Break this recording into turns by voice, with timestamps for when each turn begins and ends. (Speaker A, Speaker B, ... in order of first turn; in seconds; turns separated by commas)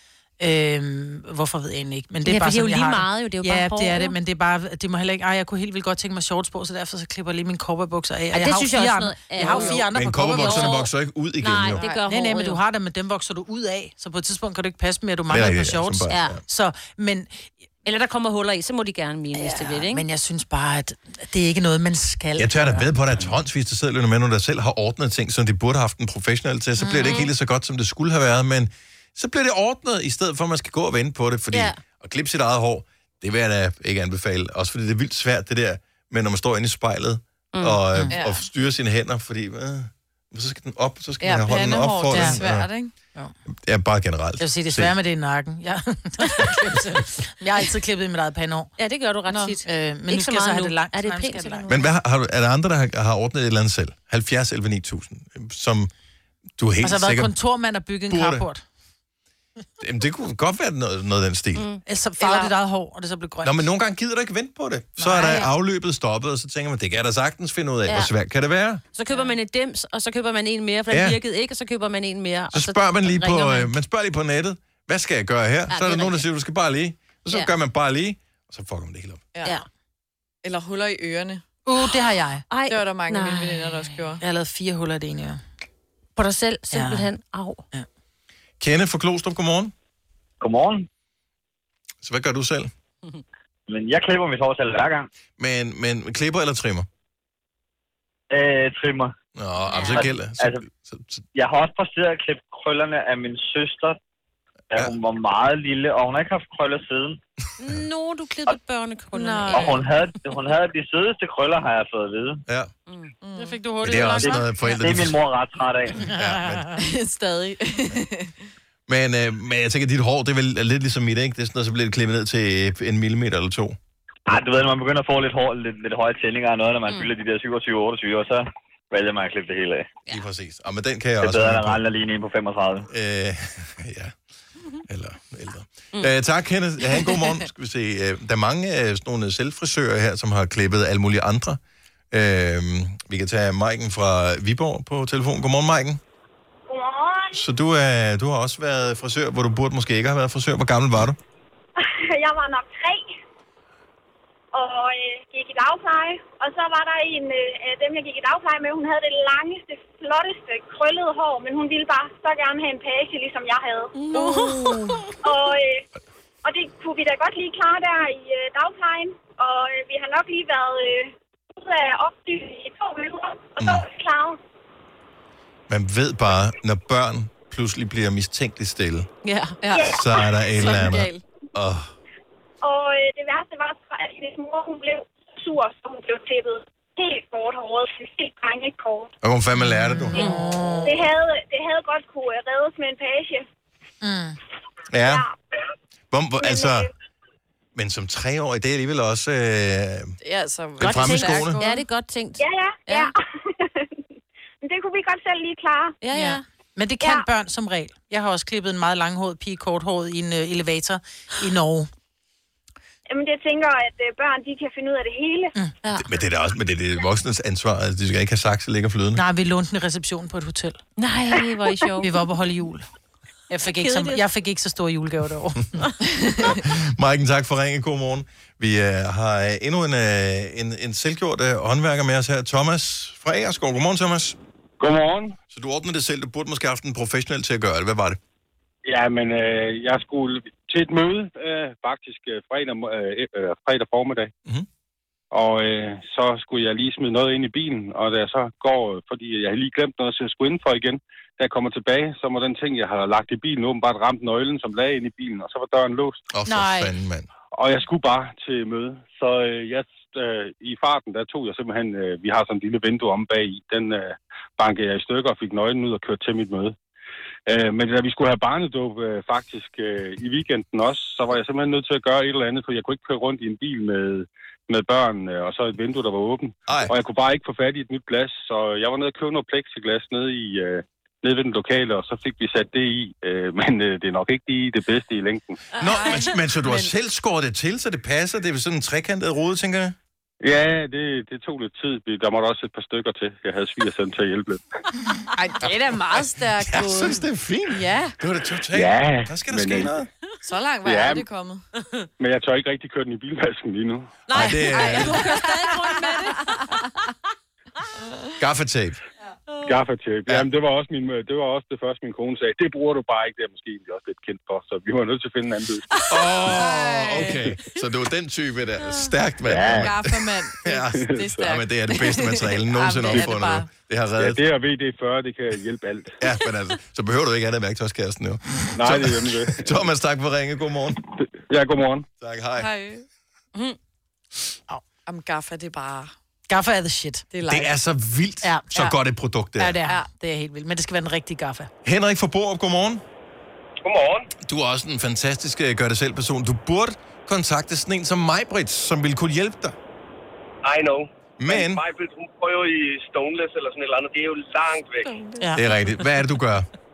Speaker A: 0.4-10.8, Speaker B: 2.3-4.2, Speaker B: 8.3-10.9, Speaker C: 9.5-11.8, Speaker B: 11.4-12.6, Speaker A: 12.1-17.5, Speaker C: 15.3-16.4, Speaker B: 16.1-16.4, Speaker B: 17.9-20.0, Speaker A: 19.3-22.8, Speaker C: 22.4-42.7, Speaker A: 26.8-27.2, Speaker B: 27.0-27.3, Speaker B: 31.5-31.8, Speaker B: 37.5-37.8, Speaker D: 38.1-38.5, Speaker D: 41.2-42.9, Speaker A: 42.1-42.4, Speaker C: 43.6-44.9, Speaker A: 44.4-48.7, Speaker B: 48.8-51.9, Speaker D: 49.3-49.5, Speaker A: 49.6-51.7, Speaker C: 51.7-55.9, Speaker C: 56.6-57.3, Speaker A: 56.8-58.6, Speaker C: 58.1-58.5, Speaker C: 59.8-61.7, Speaker B: 61.5-61.8, Speaker A: 61.9-63.6, Speaker C: 63.4-68.8, Speaker A: 65.0-65.5, Speaker B: 68.9-73.7, Speaker C: 70.9-71.2, Speaker C: 72.5-79.2, Speaker B: 75.7-76.2, Speaker D: 80.4-81.4, Speaker A: 81.7-82.5, Speaker B: 82.5-83.9, Speaker D: 82.7-84.2, Speaker A: 84.2-85.4, Speaker B: 86.2-87.6, Speaker A: 86.7-87.1, Speaker C: 88.6-89.7, Speaker E: 90.4-90.9, Speaker C: 92.0-92.7, Speaker E: 93.7-95.1, Speaker C: 95.4-96.9, Speaker E: 98.3-99.1, Speaker C: 99.4-101.3, Speaker B: 99.7-100.1, Speaker E: 99.9-100.6, Speaker E: 101.3-104.0, Speaker E: 104.7-107.2, Speaker B: 107.6-109.8, Speaker D: 109.2-109.9, Speaker E: 109.5-112.4, Speaker B: 112.9-113.1, Speaker D: 113.2-113.6, Speaker A: 113.3-114.8, Speaker C: 113.8-115.2, Speaker E: 114.2-116.1, Speaker C: 116.0-116.8, Speaker A: 116.1-116.8, Speaker D: 116.8-118.3, Speaker C: 118.9-123.8, Speaker E: 124.3-129.9, Speaker C: 130.1-131.8, Speaker E: 131.2-132.9, Speaker C: 132.9-134.2, Speaker C: 134.9-141.6, Speaker C: 142.1-146.0, Speaker F: 146.7-147.4, Speaker C: 147.3-151.2, Speaker F: 151.8-153.2, Speaker F: 154.5-163.9, Speaker B: 164.1-164.8, Speaker A: 164.1-165.0, Speaker D: 164.2-164.8, Speaker F: 165.2-165.8, Speaker F: 166.4-174.4, Speaker C: 175.7-179.1, Speaker B: 179.2-179.6, Speaker D: 179.6-181.2, Speaker F: 179.7-180.0, Speaker C: 179.8-181.9, Speaker F: 182.6-189.1, Speaker C: 189.2-190.3, Speaker A: 189.6-191.1, Speaker F: 190.8-193.5, Speaker A: 194.0-194.4, Speaker C: 194.9-195.2, Speaker F: 195.0-195.3, Speaker C: 196.1-196.9, Speaker F: 196.4-196.9, Speaker C: 197.8-200.1, Speaker D: 200.2-201.8, Speaker C: 200.8-201.6, Speaker B: 200.8-203.1, Speaker F: 202.4-204.0, Speaker F: 204.6-206.0, Speaker B: 206.0-206.4, Speaker A: 206.1-211.9, Speaker F: 213.1-215.5, Speaker B: 215.8-216.1, Speaker C: 216.0-219.2, Speaker A: 219.2-220.8, Speaker B: 221.0-222.2, Speaker A: 222.0-222.9, Speaker A: 223.5-225.7, Speaker B: 223.8-224.2, Speaker C: 226.4-234.4, Speaker G: 234.8-235.4, Speaker C: 235.5-238.2, Speaker G: 238.8-244.3, Speaker G: 245.3-256.2, Speaker C: 256.3-257.3, Speaker A: 256.5-256.9, Speaker G: 257.5-266.8, Speaker G: 267.5-285.6, Speaker C: 285.8-290.0, Speaker D: 285.8-286.9, Speaker G: 290.4-294.6, Speaker D: 295.4-298.1, Speaker C: 296.6-300.1, Speaker G: 298.7-299.9, Speaker D: 300.4-301.6, Speaker G: 300.8-301.2, Speaker G: 302.2-304.2, Speaker B: 304.3-306.8, Speaker C: 304.3-305.2, Speaker D: 304.8-306.4, Speaker D: 308.0-308.3, Speaker C: 308.4-309.0, Speaker G: 309.6-315.8, Speaker C: 316.1-324.4, Speaker D: 316.2-317.4, Speaker G: 319.5-319.8, Speaker D: 319.6-323.7, Speaker G: 321.0-321.3, Speaker G: 324.2-326.1, Speaker C: 326.2-331.0, Speaker G: 328.7-329.9, Speaker G: 331.2-332.1, Speaker C: 332.2-332.7, Speaker D: 332.6-333.1, Speaker D: 335.1-336.1, Speaker A: 336.5-337.3, Speaker D: 337.3-337.7, Speaker C: 337.5-339.8, Speaker A: 338.4-338.8, Speaker A: 339.6-341.7, Speaker C: 341.8-343.0, Speaker H: 343.8-344.3, Speaker C: 344.4-349.8, Speaker H: 350.6-355.1, Speaker C: 351.4-351.8, Speaker D: 355.0-355.5, Speaker C: 355.5-356.7